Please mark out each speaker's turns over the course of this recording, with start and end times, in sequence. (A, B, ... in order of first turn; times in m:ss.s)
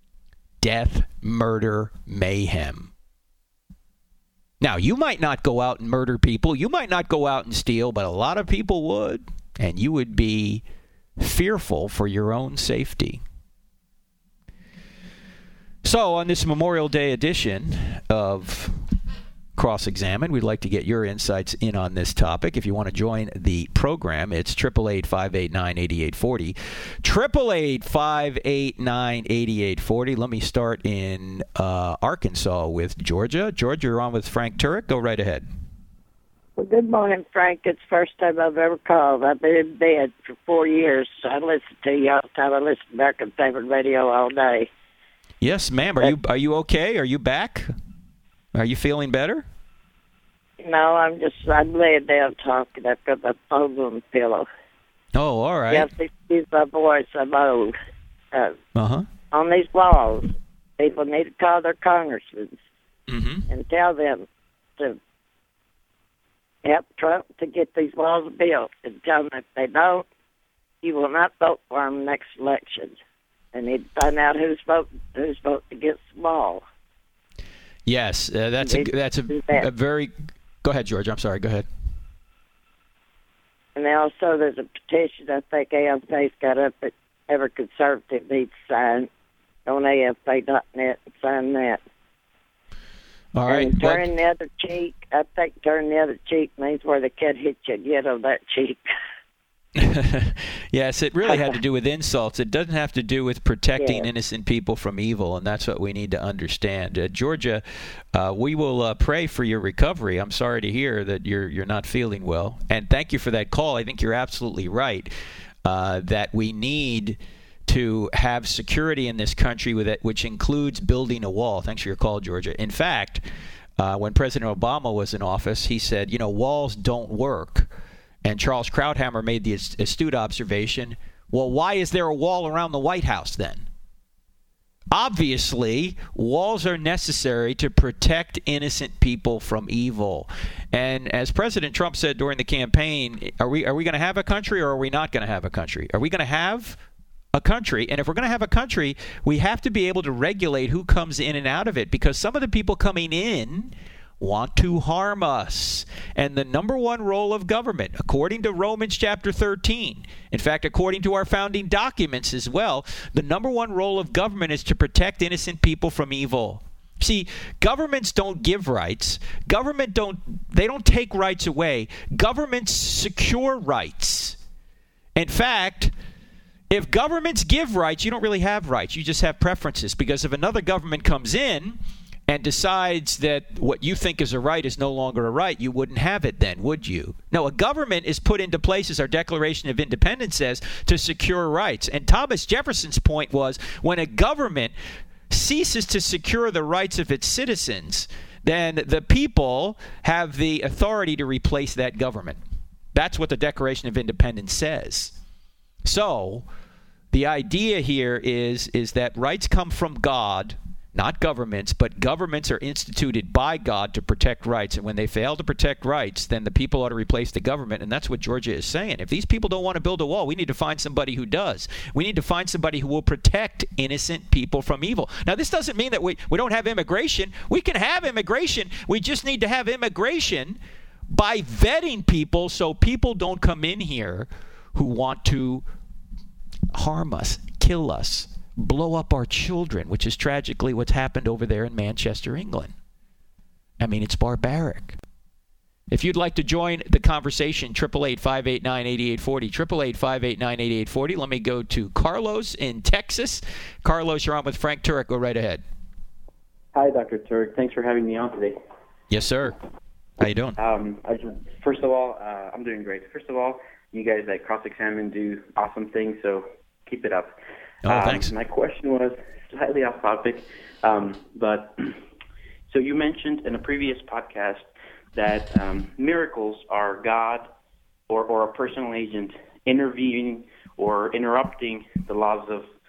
0:00.6-0:02.9 A
0:04.6-0:10.6 A
0:11.2-0:13.2 A
0:15.8-0:18.8 A
0:19.6-0:35.5 A
0:36.6-0:44.7 B
0:45.4-0:47.7 A
0:48.5-0:49.4 A
0:50.6-0:54.5 B
0:55.2-0:55.9 A
0:55.7-0:57.8 B
0:58.8-0:59.1 A
0:59.3-1:02.6 B
1:03.1-1:03.5 A
1:03.5-1:04.2 B
1:06.6-1:10.0 B
1:10.8-1:13.0 B
1:13.5-1:16.6 B
1:17.9-1:21.7 A
1:18.6-1:19.7 B
1:23.8-1:29.1 B
1:29.7-1:31.8 B
1:33.4-1:34.0 A
1:33.5-1:38.8 B
1:39.8-1:55.1 A
1:43.8-1:44.1 B
1:55.6-2:03.2 A
2:03.8-2:07.7 A
2:08.2-2:13.7 A
2:14.9-2:26.8 A
2:27.3-2:54.4 A
2:55.2-2:55.9 A
2:56.7-3:14.7 A
3:15.3-3:22.4 A
3:22.9-3:25.2 A
3:25.8-3:26.5 A
3:27.1-3:55.6 A
3:56.7-4:02.7 A
4:03.8-4:05.0 A
4:05.9-4:15.6 A
4:16.7-4:18.6 C
4:19.1-4:19.6 A
4:20.2-4:20.6 A
4:20.6-4:27.3 C
4:27.8-4:28.3 A
4:27.8-4:32.0 C
4:32.7-4:37.5 C
4:38.1-4:42.7 C